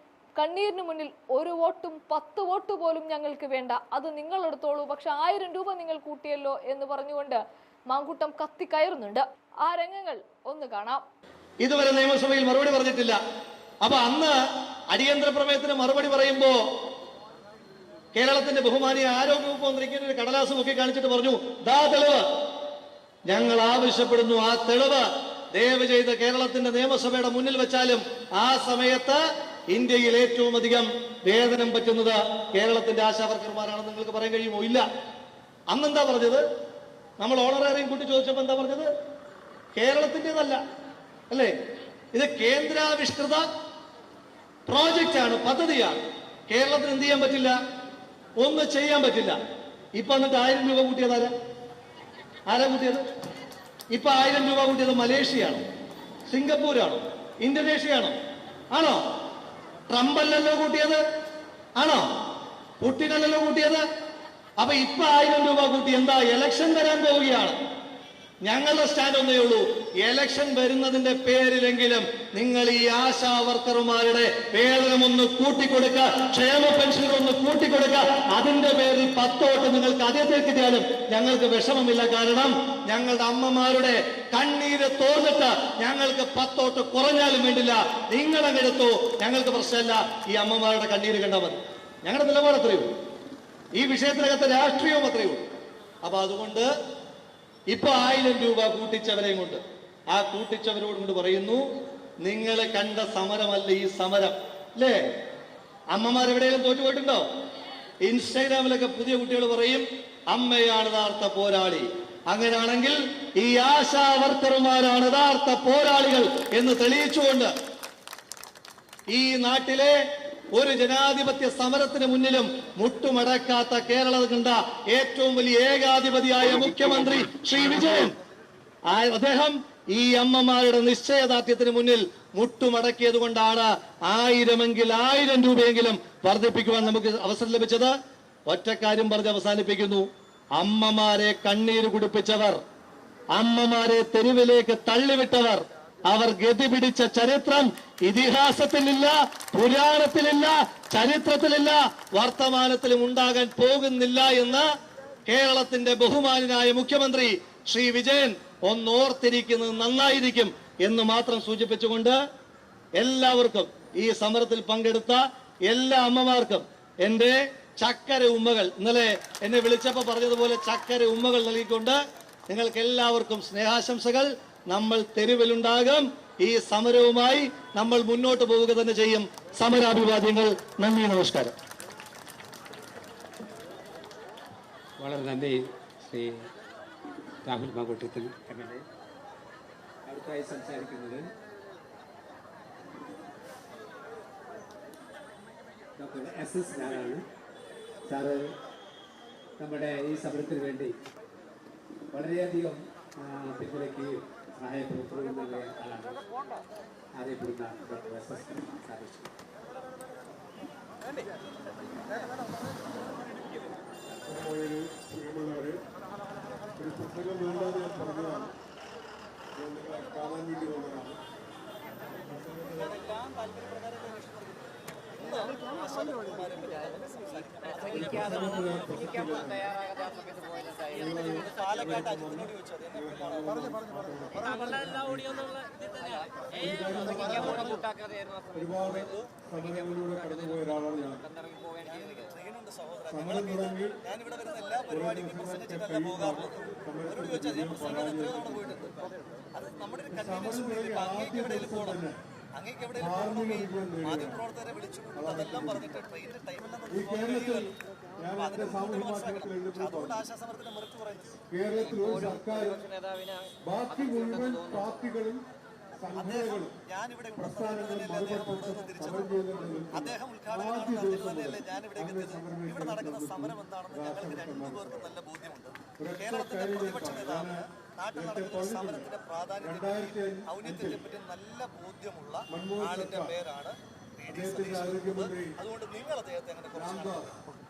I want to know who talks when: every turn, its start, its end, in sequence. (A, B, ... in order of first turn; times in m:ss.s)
0:00.4-0:11.0 A
0:11.6-0:13.2 B
0:13.8-0:14.4 B
0:14.9-0:16.6 B
0:18.1-0:22.2 B
0:23.3-0:29.2 B
0:29.7-0:34.8 B
0:35.7-0:36.4 B
0:37.2-0:38.9 B
0:39.8-0:40.6 B
0:42.1-0:43.4 B
0:44.7-0:47.5 B
0:48.4-0:49.4 B
0:50.0-0:51.3 B
0:52.5-0:53.0 B
0:53.9-0:55.6 B
0:56.3-0:58.2 B
0:58.7-0:59.0 B
0:59.9-1:01.0 B
1:01.8-1:02.1 B
1:02.8-1:03.8 B
1:04.6-1:07.6 B
1:08.4-1:32.9 B
1:33.8-1:35.4 B
1:36.0-1:36.7 B
1:37.7-1:39.6 B
1:40.1-1:41.6 B
1:42.2-1:45.0 B
1:45.9-1:47.2 B
1:48.0-1:57.5 B
1:59.1-1:59.9 B
2:00.5-2:08.2 B
2:08.9-2:17.9 B
2:18.5-2:22.6 B
2:23.4-2:34.6 B
2:35.3-2:42.2 B
2:43.0-2:52.0 B
2:52.5-3:01.5 B
3:05.0-3:06.5 C
3:07.4-3:08.8 C
3:10.0-3:11.3 C
3:16.0-3:17.2 C
3:18.1-3:18.5 C
3:19.6-3:21.0 C
3:22.1-3:26.2 C
3:27.2-3:29.3 C
3:34.2-3:35.8 D
3:36.8-3:38.5 D
3:39.6-3:41.2 D
3:42.2-3:42.8 D
3:42.4-3:48.7 B
3:47.9-3:49.7 D
3:50.9-3:55.5 D
3:51.0-3:53.5 B
3:56.5-3:57.8 D
3:58.5-4:01.3 D
4:01.8-4:09.0 B
4:03.1-4:04.0 D
4:04.9-4:08.8 D
4:09.5-4:12.0 B
4:10.1-4:12.2 D
4:12.5-4:17.7 B
4:12.9-4:14.4 D
4:15.1-4:15.9 D
4:16.9-4:20.2 D
4:18.4-4:21.4 B
4:21.5-4:22.9 D
4:23.6-4:25.4 D
4:26.0-4:26.7 D
4:26.1-4:47.3 B
4:27.4-4:35.0 D
4:36.0-4:37.6 D
4:38.1-4:39.1 D
4:39.6-4:41.0 D
4:42.5-4:43.3 D
4:44.3-4:45.5 D
4:46.7-4:47.3 D